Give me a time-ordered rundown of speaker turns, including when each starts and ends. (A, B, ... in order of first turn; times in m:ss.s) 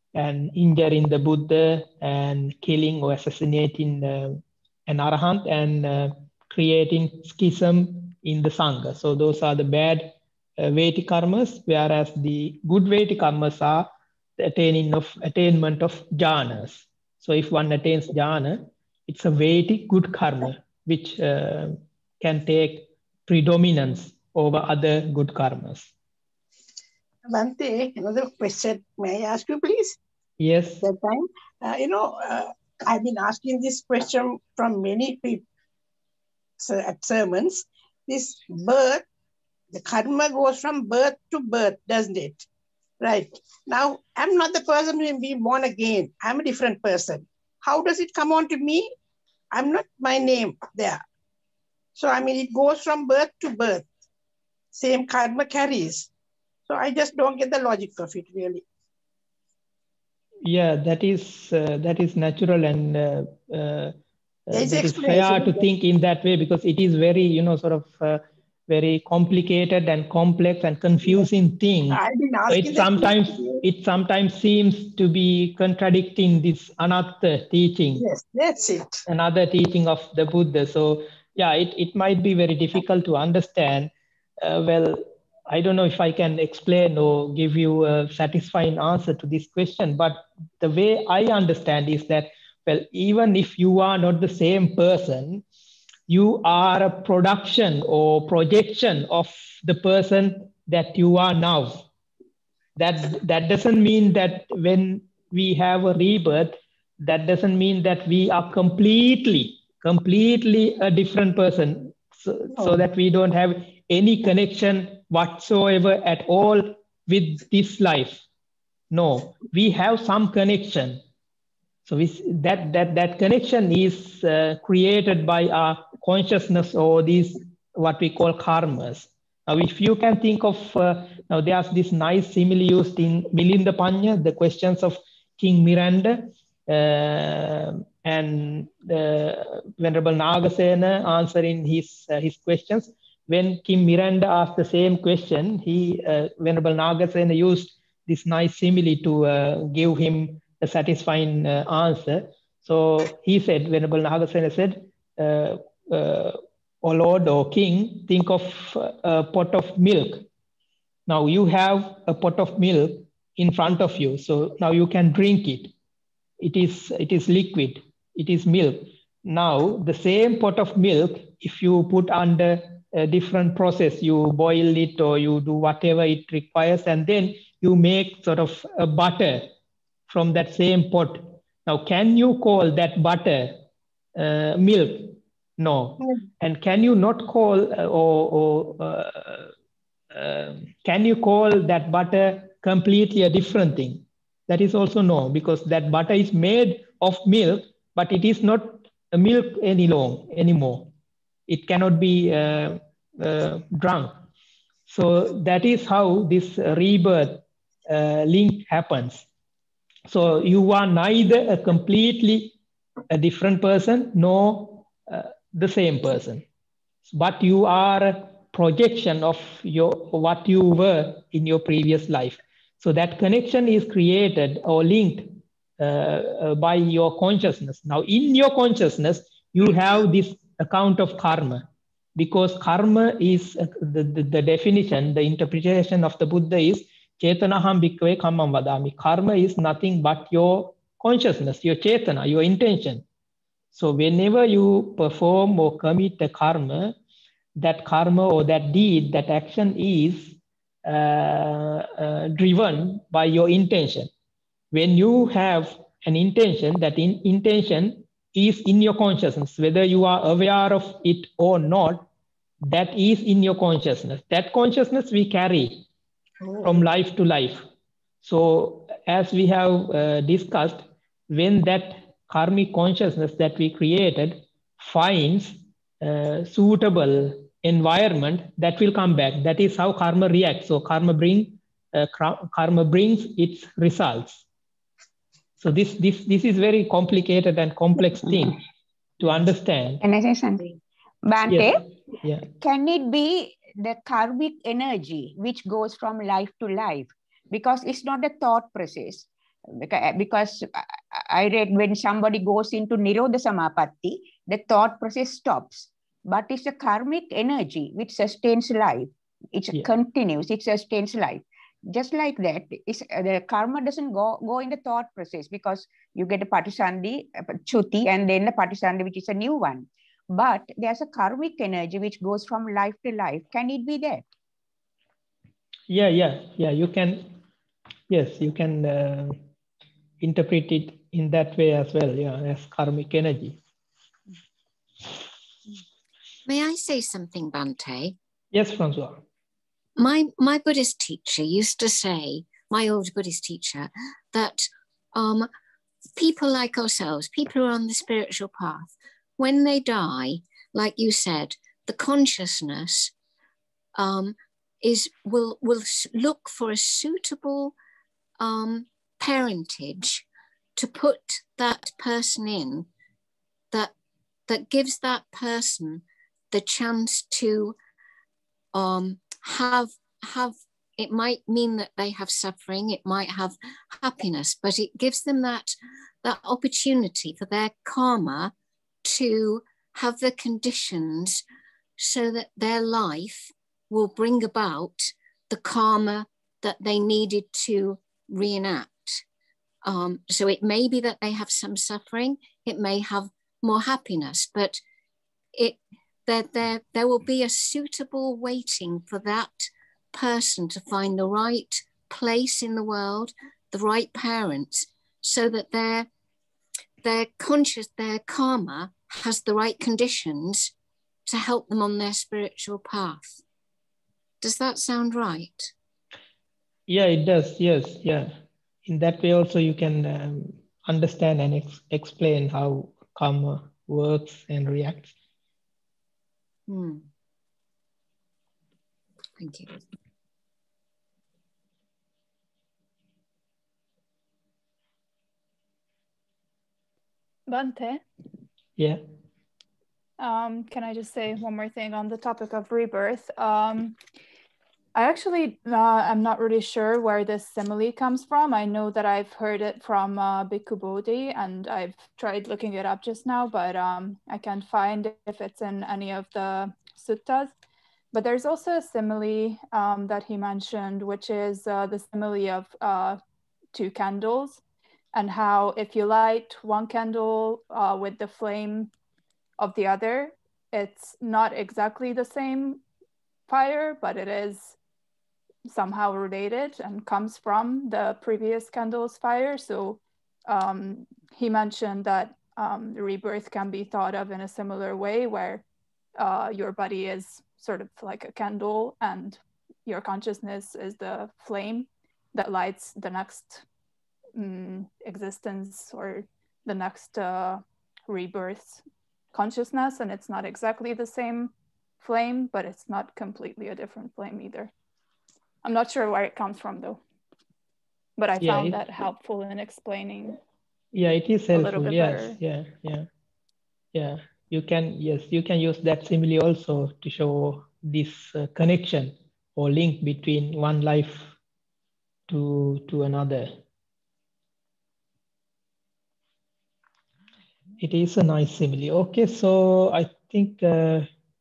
0:00.1-0:25.9 A
0:27.3-0:30.0 B
0:30.4-0:30.8 A
0:30.8-0:35.4 B
0:36.6-0:39.0 B
0:39.7-0:42.4 B
0:43.0-0:48.9 B
0:49.5-0:51.0 B
0:51.9-0:53.9 B
0:54.7-0:56.1 B
0:56.7-0:58.6 B
1:00.4-1:03.9 A
1:04.5-1:18.0 A
1:04.5-1:05.6 B
1:11.9-1:13.6 B
1:18.0-1:19.0 B
1:19.0-1:35.4 A
1:36.1-1:41.8 A
1:42.8-1:58.2 A
1:52.5-1:52.8 B
1:58.9-2:01.0 A
2:01.8-2:40.3 A
2:41.1-2:45.7 A
2:46.4-2:59.5 A
3:00.1-3:03.6 A
3:04.2-3:09.5 A
3:10.1-3:20.9 A
3:21.5-3:24.2 A
3:24.9-3:29.2 A
3:30.1-3:32.6 A
3:33.1-3:36.4 A
3:37.1-4:03.0 A
4:03.7-4:06.9 A
4:07.6-4:14.1 A
4:14.7-4:22.1 A
4:22.6-4:25.8 A
4:26.6-4:27.6 A
4:28.2-4:44.4 A
4:45.6-4:48.6 A
4:49.2-4:50.0 A
4:50.0-4:51.8 C
4:51.5-4:52.5 A
4:52.6-5:24.2 C
5:25.9-5:27.3 A
5:28.1-5:29.4 A
5:30.2-5:33.6 A
5:36.4-5:38.1 D
5:38.5-5:39.2 A
5:40.0-5:45.5 D
5:46.1-5:53.1 D
5:54.0-5:57.7 D
5:58.4-6:00.2 D
6:00.8-6:02.9 D
6:04.5-6:07.8 D
6:08.7-6:18.5 D
6:19.0-6:21.4 D
6:22.0-6:29.2 D
6:29.8-6:34.8 D
6:35.6-6:46.1 D
6:47.0-6:50.7 D
6:51.3-6:53.4 D
6:54.4-6:55.7 D
6:56.9-6:58.3 A
6:58.8-7:05.1 A
7:06.7-7:07.1 D
7:09.4-7:09.8 D
7:17.5-7:18.0 E
7:20.2-7:24.0 E
7:24.9-7:37.5 E
7:38.1-7:43.2 E
7:43.7-7:44.6 E
7:45.1-7:48.9 E
7:49.6-7:52.8 E
7:53.5-7:54.8 E
7:55.6-8:05.6 E
8:06.2-8:13.6 E
8:14.4-8:18.8 E
8:19.3-8:24.7 E
8:25.6-8:27.0 E
8:28.2-8:30.4 E
8:28.4-8:28.8 A
8:30.9-8:33.1 A
8:31.5-8:32.4 E
8:33.9-8:41.4 A
8:42.3-8:43.6 A
8:47.8-8:51.1 A